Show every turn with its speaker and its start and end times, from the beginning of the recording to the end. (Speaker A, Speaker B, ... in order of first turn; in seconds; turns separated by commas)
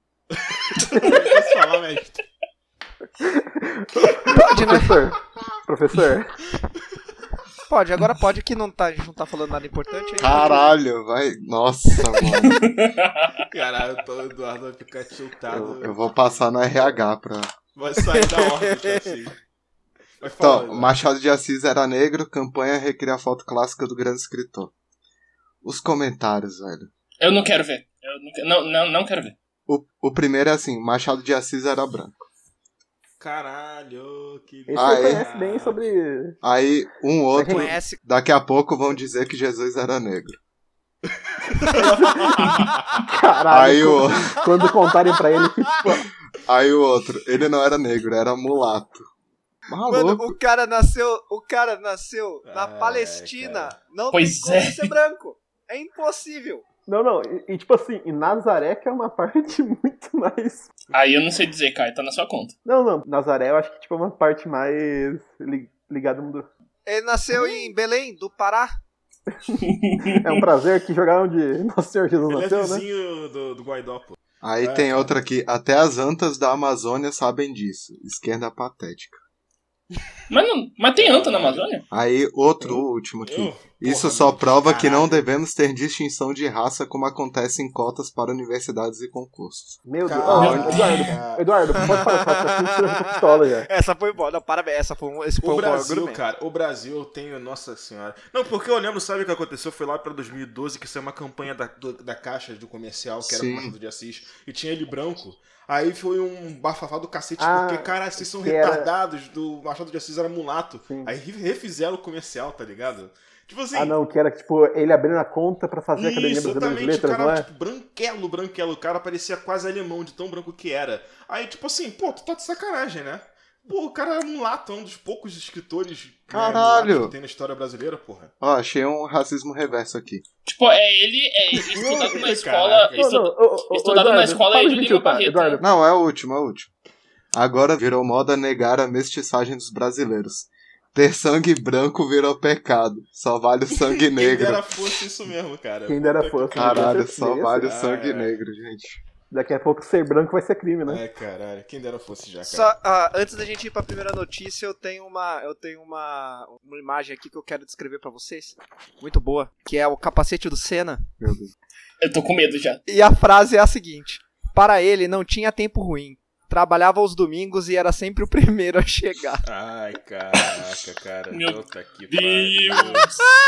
Speaker A: 0.3-2.2, Speaker B: 3.2-6.3, Speaker C: 4.3-4.9, Speaker C: 7.7-10.7, Speaker D: 10.2-12.7, Speaker E: 12.5-13.3, Speaker A: 13.5-16.9, Speaker D: 15.5-17.5, Speaker A: 17.7-19.4, Speaker C: 18.0-19.1, Speaker A: 20.2-20.9, Speaker D: 20.4-24.7, Speaker D: 25.6-26.9, Speaker E: 27.2-29.3, Speaker D: 29.7-32.3, Speaker A: 33.2-35.8, Speaker B: 34.7-36.4, Speaker D: 34.8-35.3, Speaker D: 36.4-40.4, Speaker B: 37.4-37.7, Speaker C: 37.4-38.0, Speaker A: 41.4-43.1, Speaker B: 41.7-46.1, Speaker D: 43.5-44.4, Speaker D: 46.4-49.0, Speaker D: 49.7-50.4, Speaker C: 49.9-56.6, Speaker A: 52.4-53.8, Speaker E: 54.1-54.9, Speaker B: 56.9-60.7, Speaker E: 60.9-62.5, Speaker B: 62.6-66.5, Speaker C: 66.8-68.7, Speaker B: 69.3-72.8, Speaker A: 72.2-75.2, Speaker D: 74.4-79.2, Speaker E: 80.3-81.8, Speaker A: 80.9-81.8, Speaker D: 81.9-91.1, Speaker A: 83.2-85.3, Speaker B: 89.8-93.7, Speaker A: 90.0-92.1, Speaker C: 91.8-96.2, Speaker A: 95.4-114.0, Speaker D: 103.2-103.7, Speaker B: 107.4-108.9, Speaker B: 110.8-111.2, Speaker B: 113.7-117.5, Speaker A: 115.9-128.3, Speaker D: 126.3-127.1, Speaker D: 128.4-130.2, Speaker E: 130.4-135.6, Speaker B: 131.7-132.1, Speaker A: 131.7-133.3, Speaker B: 132.9-135.6, Speaker D: 135.6-136.7, Speaker D: 137.3-144.8, Speaker A: 143.7-147.0, Speaker B: 145.8-147.7, Speaker D: 146.5-149.0, Speaker A: 147.6-148.4, Speaker B: 149.3-151.0, Speaker A: 150.8-152.7, Speaker C: 152.4-161.0, Speaker D: 161.2-161.5, Speaker E: 162.0-162.8, Speaker C: 162.9-169.4, Speaker A: 169.4-173.1, Speaker E: 171.3-173.1